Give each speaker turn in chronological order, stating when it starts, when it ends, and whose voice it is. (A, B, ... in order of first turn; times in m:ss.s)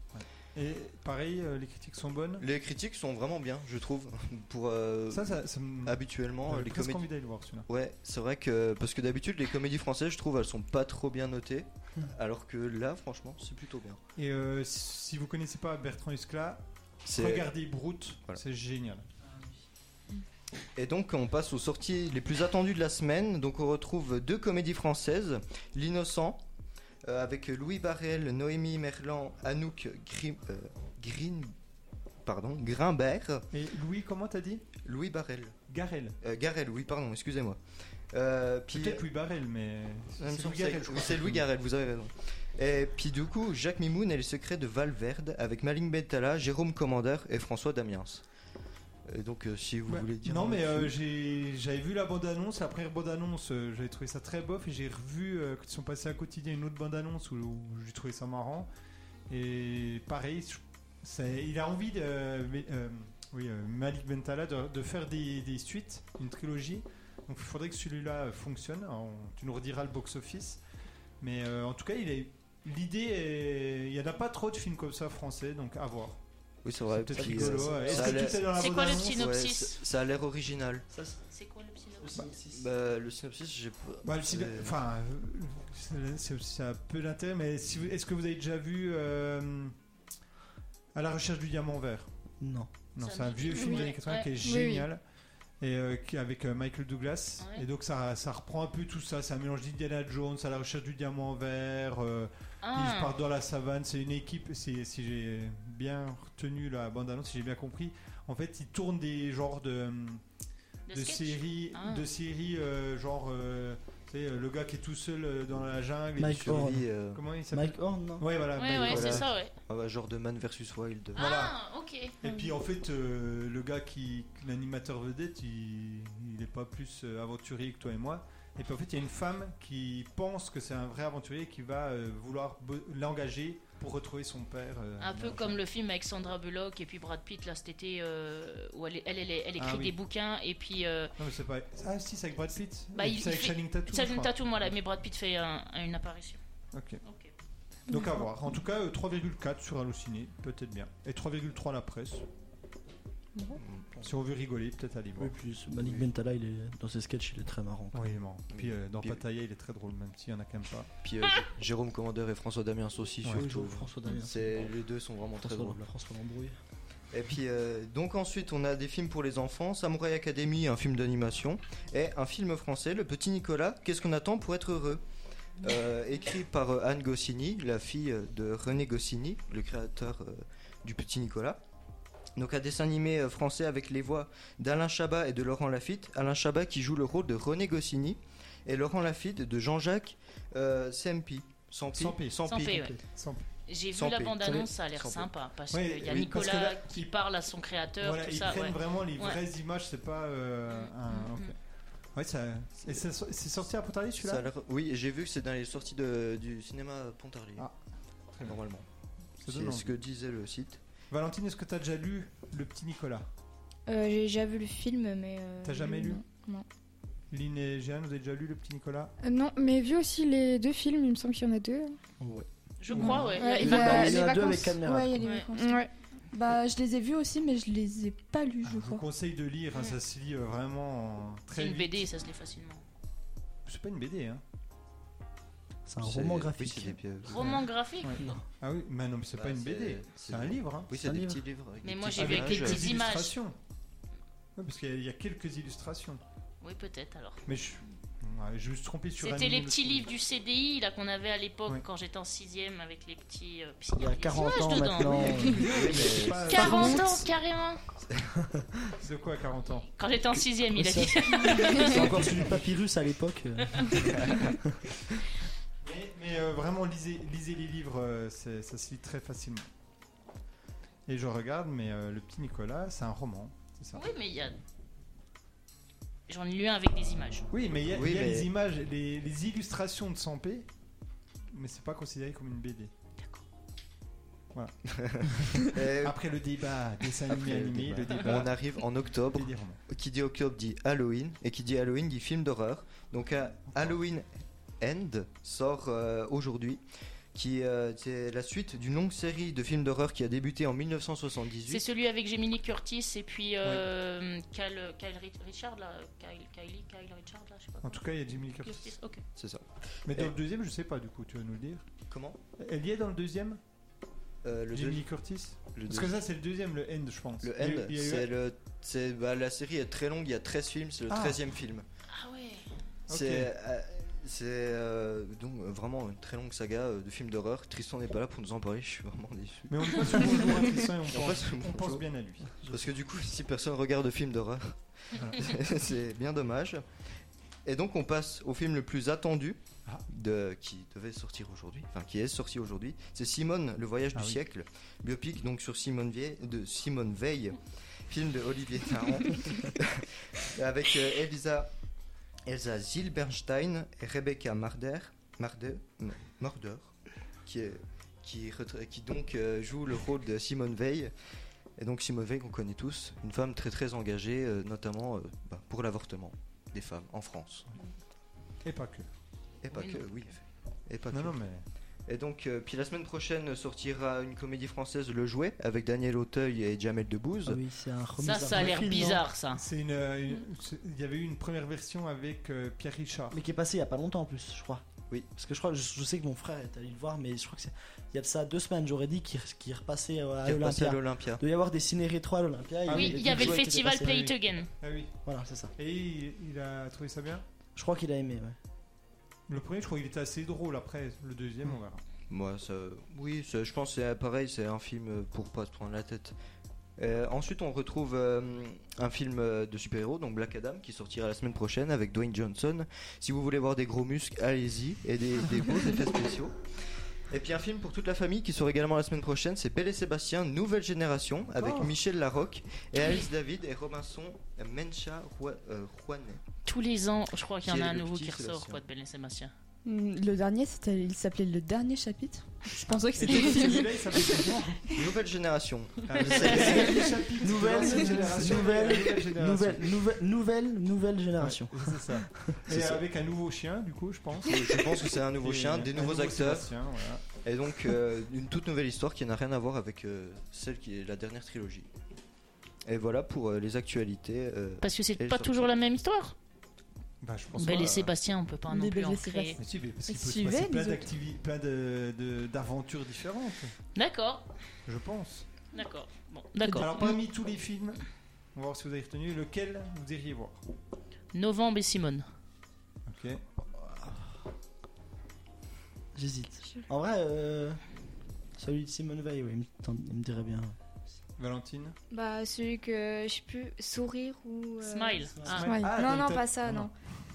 0:00.1-0:02.4 A
0:02.4-0:07.1 B
0:05.1-0:07.7 A
0:07.7-0:14.0 B
0:14.2-0:19.0 A
0:17.0-0:17.5 B
0:20.8-0:26.4 B
0:27.0-0:31.5 B
0:32.2-0:33.4 B
0:33.5-0:34.7 A
0:34.8-0:35.5 B
0:35.7-0:36.2 A
0:36.2-0:37.6 B
0:38.1-0:39.0 B
0:38.7-0:41.4 A
0:40.2-0:48.2 B
0:49.1-0:50.9 B
0:49.9-0:58.7 A
0:59.3-1:10.6 A
1:11.2-1:16.2 A
1:16.6-1:20.8 B
1:16.9-1:19.3 A
1:17.1-1:18.4 C
1:18.5-1:19.8 D
1:20.9-1:21.2 C
1:21.3-1:22.2 D
1:22.0-1:22.6 C
1:22.5-1:24.8 B
1:24.0-1:29.7 A
1:30.9-1:32.1 A
1:32.4-1:32.7 C
1:32.9-1:35.0 A
1:33.0-1:34.3 D
1:34.4-1:34.9 E
1:35.6-1:50.2 A
1:37.4-1:37.6 D
1:42.6-1:43.1 D
1:50.9-1:52.0 D
1:50.9-1:59.3 A
1:56.2-1:56.9 C
1:56.3-1:57.2 B
1:57.5-1:58.3 C
1:58.6-1:59.5 D
1:58.8-2:01.2 B
2:01.1-2:02.1 D
2:01.2-2:01.5 A
2:02.2-2:15.6 A
2:15.0-2:21.1 D
2:19.6-2:20.0 A
2:21.2-2:24.3 A
2:22.9-2:26.4 D
2:26.7-2:27.0 A
2:27.0-2:27.3 D
2:27.9-2:32.2 A
2:27.9-2:28.2 E
2:33.6-2:34.0 B
2:34.0-2:35.3 A
2:35.2-2:38.1 C
2:37.9-2:40.9 A
2:38.5-2:39.2 B
2:41.0-2:45.8 B
2:43.3-2:44.7 C
2:45.4-2:46.5 C
2:47.1-2:55.0 B
2:55.6-3:01.6 B
3:02.4-3:12.9 B
3:11.9-3:13.5 A
3:12.5-3:12.9 D
3:13.7-3:19.4 D
3:13.9-3:15.3 B
3:15.7-3:17.1 A
3:18.0-3:21.5 A
3:20.7-3:21.5 D
3:22.1-3:24.4 A
3:24.2-3:27.7 B
3:28.4-3:28.8 B
3:29.4-3:29.9 A
3:29.4-3:30.8 B
3:31.1-3:33.3 A
3:33.9-3:36.6 F
3:35.6-3:36.2 A
3:37.3-3:39.1 A
3:39.2-3:42.0 E
3:42.2-3:45.2 C
3:42.8-3:44.2 D
3:43.0-3:44.8 E
3:43.0-3:43.3 A
3:43.4-3:49.0 G
3:45.2-3:45.5 D
3:45.5-3:45.9 E
3:48.6-3:52.0 A
3:51.5-3:52.8 D
3:53.6-3:54.4 A
3:55.9-3:57.0 C
3:56.0-3:57.6 B
3:57.2-3:58.3 D
3:57.4-4:00.9 A
3:59.3-4:03.0 B
4:01.0-4:01.4 C
4:01.8-4:03.3 D
4:02.2-4:03.6 A
4:04.6-4:06.2 A
4:06.6-4:07.4 D
4:07.4-4:10.1 A
4:09.2-4:15.6 D
4:14.0-4:17.0 C
4:15.2-4:17.2 A
4:15.7-4:16.8 B
4:16.5-4:17.8 D
4:19.0-4:19.9 A
4:20.0-4:22.0 D
4:20.7-4:24.8 C
4:21.9-4:22.4 A
4:25.8-4:29.7 A
4:31.1-4:34.0 A
4:33.9-4:34.6 D
4:36.3-4:37.4 D
4:37.5-4:40.7 A
4:37.9-4:38.5 B
4:41.5-4:42.9 A
4:44.5-4:48.8 A
4:44.9-4:46.2 B
4:47.3-4:54.3 B
4:49.3-4:49.8 A
4:54.8-4:56.8 B
4:57.3-5:01.9 B
5:01.7-5:08.0 D
5:07.8-5:08.9 A
5:08.6-5:09.2 D
5:09.4-5:10.3 B
5:10.0-5:11.9 A
5:12.0-5:12.4 B
5:12.6-5:13.6 A
5:14.4-5:15.0 B
5:14.7-5:18.3 A
5:15.7-5:16.1 B
5:17.4-5:21.8 B
5:21.1-5:21.4 A
5:22.1-5:22.6 D
5:23.1-5:23.5 A
5:23.1-5:32.0 B
5:29.7-5:32.6 A
5:32.6-5:36.8 B
5:35.2-5:35.4 A
5:37.6-5:47.6 B
5:44.1-5:44.4 A
5:48.1-5:51.7 B
5:52.4-6:01.1 B
6:01.8-6:07.7 B
6:08.6-6:09.1 A
6:09.6-6:11.4 B
6:09.7-6:10.0 D
6:11.1-6:11.6 A
6:12.1-6:17.6 B
6:17.4-6:19.2 C
6:18.2-6:19.6 D
6:19.5-6:23.4 A
6:23.3-6:34.3 C
6:30.4-6:31.4 B
6:32.8-6:34.3 A
6:32.9-6:34.7 D
6:34.8-6:35.2 A
6:35.2-6:35.7 C
6:35.8-6:37.4 A
6:37.7-6:38.6 C
6:39.5-6:42.0 A
6:42.3-6:46.4 B
6:47.0-6:56.5 B
6:57.3-7:06.4 B
7:01.6-7:01.9 A
7:06.6-7:09.5 D
7:07.6-7:08.8 B
7:09.8-7:14.5 G
7:12.7-7:14.9 A
7:14.9-7:17.1 B
7:16.0-7:19.9 A
7:16.5-7:22.6 C
7:21.4-7:27.2 A
7:24.4-7:26.7 B
7:27.4-7:31.9 B
7:32.8-7:35.6 B
7:34.8-7:36.3 D
7:37.2-7:38.1 A
7:37.6-7:39.6 D
7:38.7-7:41.1 G
7:39.6-7:43.7 A
7:44.0-7:44.5 D
7:44.8-7:45.4 A
7:45.7-7:47.1 D
7:46.6-7:47.2 G
7:46.8-7:48.0 A
7:48.5-7:50.6 A
7:51.3-7:52.2 D
7:53.1-7:53.4 A
7:56.1-7:57.8 C
7:58.6-8:00.8 C
8:01.4-8:02.0 A
8:02.1-8:05.3 F
8:04.8-8:05.7 D
8:05.5-8:06.9 A
8:05.6-8:05.9 E
8:05.9-8:06.9 F